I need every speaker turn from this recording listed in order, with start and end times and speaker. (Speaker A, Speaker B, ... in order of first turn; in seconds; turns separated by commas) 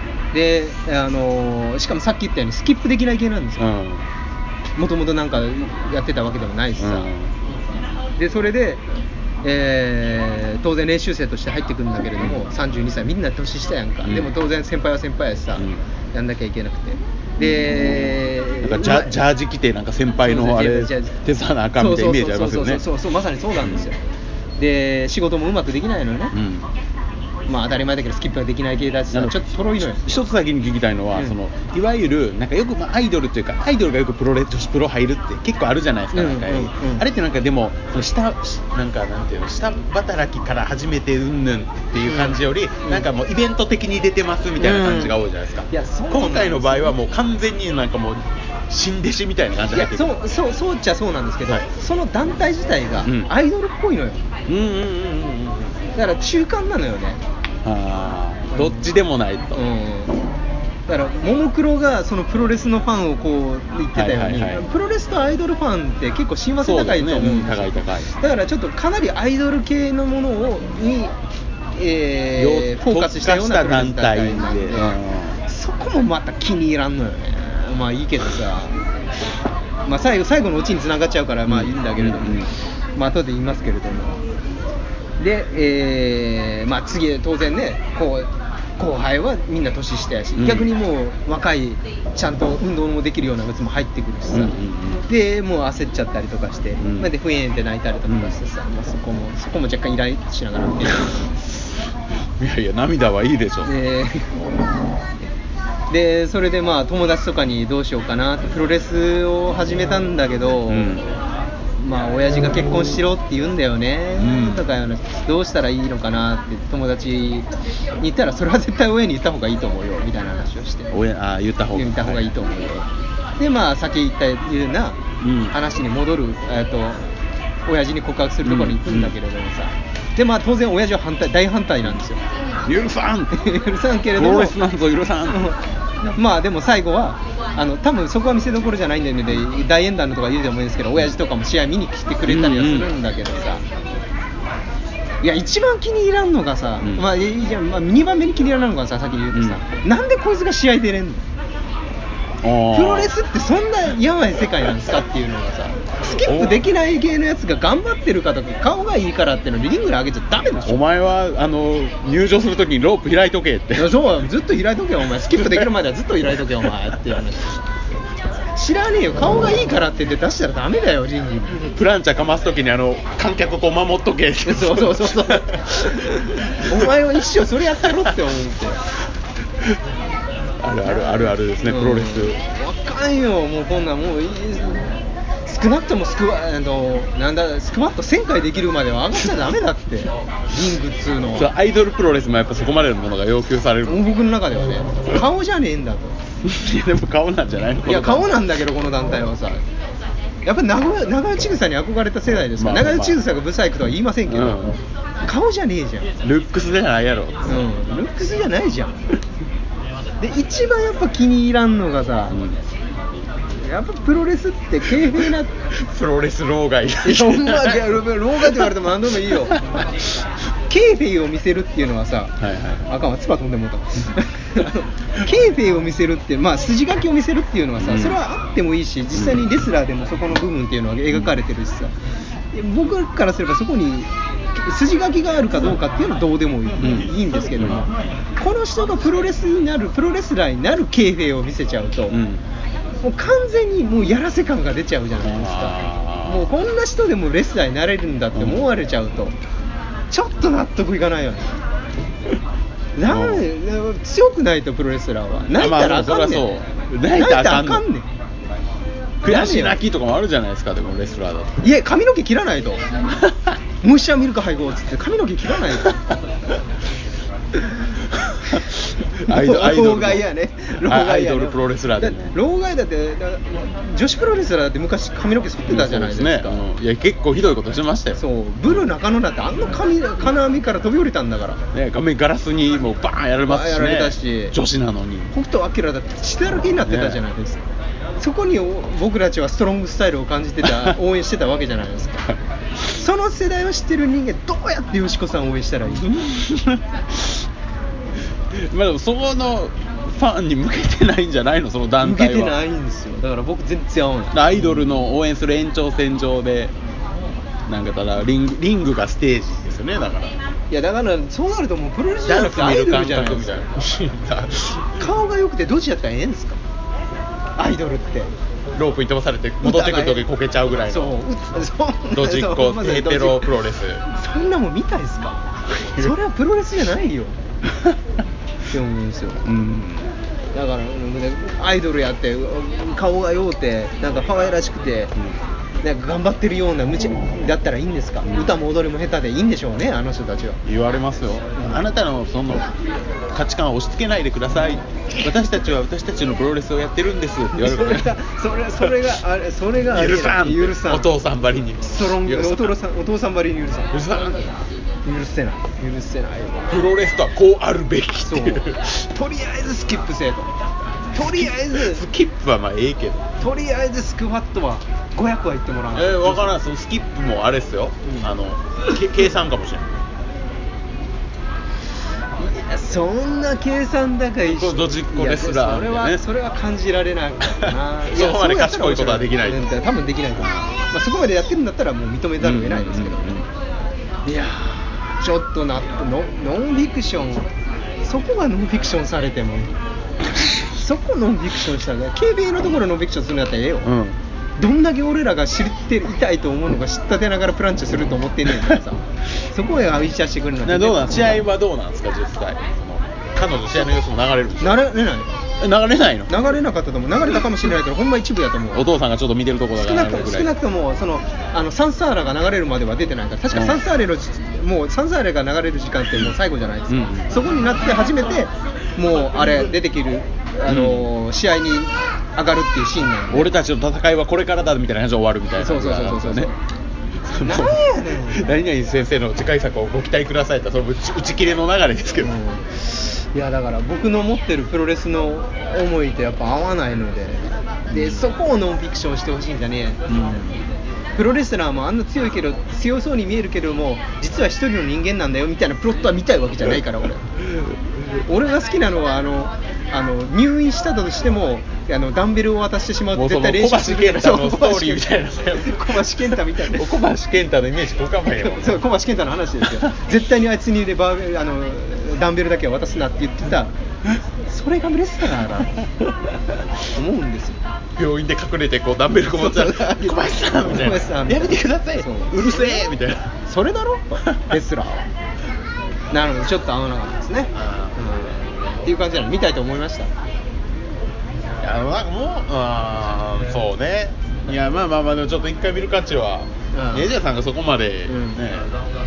Speaker A: 0.3-3.7, Speaker B: 3.6-4.1, Speaker A: 4.8-7.1, Speaker B: 6.8-7.3, Speaker A: 8.2-8.8, Speaker A: 9.4-19.2, Speaker B: 14.1-14.3, Speaker B: 15.6-15.8, Speaker B: 17.7-22.9, Speaker A: 20.2-21.2, Speaker A: 21.8-24.0, Speaker A: 24.6-26.3, Speaker B: 26.3-26.7, Speaker A: 27.5-30.0, Speaker B: 29.1-50.1, Speaker A: 36.1-37.0, Speaker A: 42.0-43.1, Speaker A: 44.6-45.1, Speaker A: 45.7-46.9, Speaker A: 49.7-54.2, Speaker B: 53.0-53.3, Speaker B: 54.5-55.7, Speaker A: 56.0-57.2, Speaker B: 57.6-59.6, Speaker A: 58.5-58.9, Speaker A: 59.5-60.1, Speaker A: 60.9-71.1, Speaker B: 64.0-64.7, Speaker B: 66.6-68.1, Speaker A: 71.8-78.8, Speaker B: 72.4-75.4, Speaker A: 79.9-84.2, Speaker B: 81.5-82.5, Speaker A: 85.2-94.5, Speaker B: 90.4-90.7, Speaker B: 94.3-95.0, Speaker A: 95.1-101.3, Speaker B: 96.8-97.1, Speaker B: 98.1-98.3, Speaker B: 102.4-103.7, Speaker A: 103.7-104.3, Speaker A: 105.9-111.0, Speaker B: 110.7-111.1, Speaker A: 111.8-117.5, Speaker B: 114.2-114.7, Speaker A: 118.0-121.0, Speaker B: 120.9-122.3, Speaker A: 121.7-122.9, Speaker A: 123.4-125.0, Speaker B: 125.2-125.6, Speaker A: 125.5-127.0, Speaker A: 127.7-132.2, Speaker B: 128.4-129.1, Speaker B: 132.7-133.5, Speaker A: 133.3-134.6, Speaker B: 134.1-135.4, Speaker A: 135.3-143.6, Speaker B: 142.3-142.9, Speaker A: 145.2-151.2, Speaker B: 149.3-149.6, Speaker B: 152.4-153.1, Speaker A: 152.7-160.8, Speaker B: 156.1-156.7, Speaker B: 160.7-164.1, Speaker A: 163.8-167.7, Speaker B: 165.3-165.7, Speaker A: 168.5-171.7, Speaker B: 171.7-177.0, Speaker A: 174.4-178.8, Speaker B: 177.8-178.1, Speaker B: 180.6-182.4, Speaker A: 180.9-184.9, Speaker A: 185.5-191.5, Speaker B: 191.3-194.0, Speaker A: 193.9-196.2, Speaker B: 196.4-198.4, Speaker A: 197.8-199.6, Speaker A: 200.5-206.1, Speaker B: 202.6-203.2, Speaker B: 204.3-204.8, Speaker B: 206.2-207.6, Speaker A: 207.5-209.0, Speaker A: 210.2-212.4, Speaker B: 212.3-212.6, Speaker A: 213.6-215.5, Speaker B: 215.7-217.9, Speaker A: 217.0-219.7, Speaker B: 218.4-219.9, Speaker A: 220.7-222.3, Speaker B: 222.4-222.9, Speaker A: 222.9-231.9, Speaker B: 227.8-228.2, Speaker B: 229.2-229.4, Speaker A: 232.5-242.2, Speaker B: 236.8-237.8, Speaker B: 242.1-242.4, Speaker A: 243.0-249.4, Speaker B: 245.2-246.5, Speaker B: 248.4-248.7, Speaker A: 250.1-251.6, Speaker A: 253.0-256.5, Speaker B: 253.1-253.5, Speaker B: 255.5-257.8, Speaker A: 257.1-258.1, Speaker B: 259.2-261.6, Speaker A: 259.2-259.8, Speaker A: 261.6-262.8, Speaker A: 263.8-266.0, Speaker B: 268.1-270.2, Speaker A: 269.3-276.6, Speaker B: 270.8-272.4, Speaker B: 275.7-278.2, Speaker A: 278.2-281.6, Speaker B: 281.7-285.3, Speaker A: 283.5-284.6, Speaker A: 285.3-287.6, Speaker B: 286.9-287.2, Speaker A: 288.2-292.3, Speaker B: 290.6-291.0, Speaker A: 292.9-296.2, Speaker B: 295.9-297.4, Speaker B: 298.5-302.6, Speaker A: 302.0-304.8, Speaker B: 304.3-306.7, Speaker B: 307.7-310.4, Speaker A: 310.7-313.6, Speaker B: 312.2-315.1, Speaker A: 315.0-316.6, Speaker A: 317.6-318.3, Speaker B: 318.7-321.2, Speaker A: 319.6-320.2, Speaker A: 320.9-323.5, Speaker B: 322.1-324.0, Speaker A: 324.0-327.4, Speaker B: 325.7-326.1, Speaker A: 328.7-329.5, Speaker B: 329.4-330.1, Speaker A: 330.5-335.1, Speaker A: 335.8-340.6, Speaker B: 338.2-338.6, Speaker B: 340.6-342.7, Speaker A: 341.6-341.8, Speaker B: 343.3-348.2, Speaker A: 347.6-351.1, Speaker B: 349.9-352.7, Speaker A: 351.8-353.9, Speaker B: 353.9-354.6, Speaker A: 355.1-356.7, Speaker B: 356.7-358.9, Speaker A: 358.2-360.5, Speaker A: 361.1-362.0, Speaker B: 361.2-363.2, Speaker A: 363.4-366.6, Speaker B: 365.9-369.9, Speaker A: 372.4-383.4, Speaker B: 374.4-376.2, Speaker B: 377.6-379.7, Speaker B: 380.4-380.7, Speaker B: 382.4-383.5, Speaker A: 384.3-387.5, Speaker A: 388.0-389.7, Speaker A: 390.7-393.9, Speaker B: 393.8-394.2, Speaker A: 394.6-401.4, Speaker B: 400.6-404.8, Speaker A: 404.6-405.3, Speaker B: 405.6-406.3, Speaker A: 406.3-408.9, Speaker B: 408.7-410.5, Speaker A: 409.8-423.5, Speaker B: 413.5-413.8, Speaker B: 416.9-417.3, Speaker B: 420.7-421.1, Speaker B: 423.3-426.5, Speaker A: 425.6-426.5, Speaker B: 427.2-432.3, Speaker A: 427.4-428.6, Speaker A: 432.2-440.0, Speaker B: 437.9-438.3, Speaker B: 440.1-440.6, Speaker A: 441.2-447.3, Speaker A: 448.3-457.0, Speaker B: 453.1-458.9, Speaker A: 458.4-463.7, Speaker A: 464.5-465.8, Speaker A: 466.9-467.6, Speaker B: 468.0-473.4, Speaker A: 469.3-472.9, Speaker A: 473.5-475.1, Speaker B: 474.2-474.5, Speaker A: 476.1-480.1, Speaker B: 477.5-478.0, Speaker B: 481.6-488.7, Speaker A: 486.7-487.1, Speaker A: 488.1-488.4